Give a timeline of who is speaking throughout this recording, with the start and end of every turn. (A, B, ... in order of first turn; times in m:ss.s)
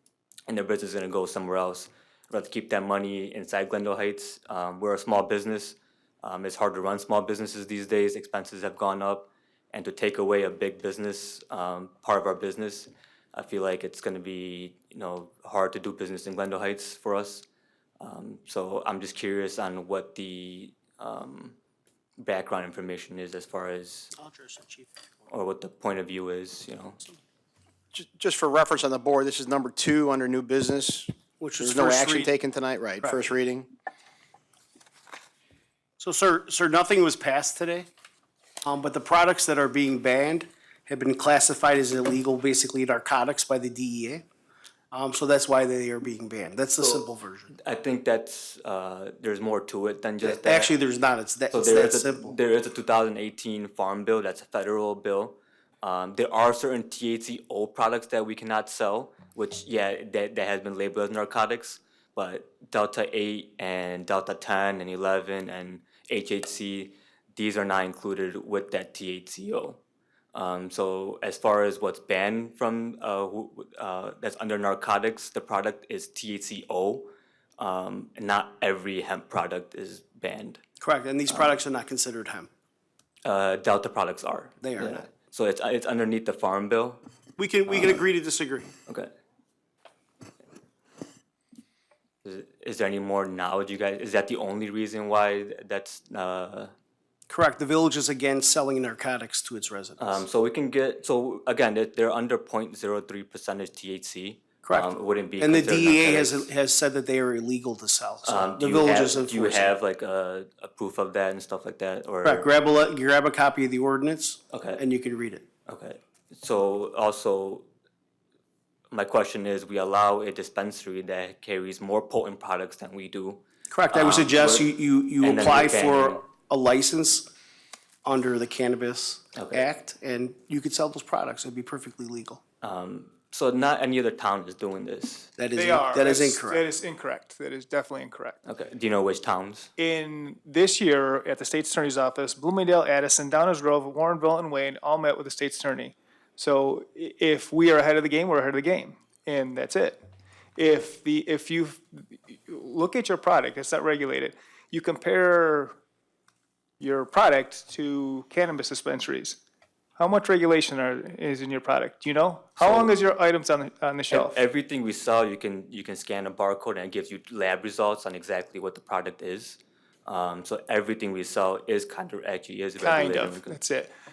0:00.5-0:17.5 A
0:18.0-0:21.6 A
0:22.2-0:24.1 A
0:24.2-0:24.9 B
0:25.3-0:27.0 A
0:27.9-0:33.7 C
0:31.4-0:32.3 B
0:33.0-0:33.2 B
0:36.0-0:37.9 B
0:38.6-0:44.2 B
0:44.9-0:47.5 B
0:46.8-0:47.0 A
0:47.6-0:50.7 A
0:50.2-0:52.4 B
0:51.5-1:09.8 A
1:10.3-1:20.6 A
1:20.8-1:22.5 B
1:23.2-1:27.0 A
1:24.6-1:25.0 B
1:27.4-1:28.7 B
1:32.2-1:36.7 A
1:37.3-1:40.2 B
1:40.0-1:46.5 A
1:44.6-1:49.7 B
1:48.2-1:52.5 A
1:52.2-1:55.4 B
1:54.5-1:54.8 A
1:55.7-1:57.7 A
1:58.9-2:06.2 A
2:03.7-2:07.3 B
2:08.0-2:12.4 B
2:09.3-2:09.7 A
2:12.6-2:15.3 A
2:15.4-2:16.6 B
2:15.6-2:18.4 D
2:18.4-2:19.7 A
2:19.8-2:30.0 D
2:30.6-2:35.8 D
2:36.8-2:39.4 D
2:40.0-2:44.4 D
2:42.6-2:42.9 A
2:44.1-2:53.6 A
2:52.8-2:53.9 D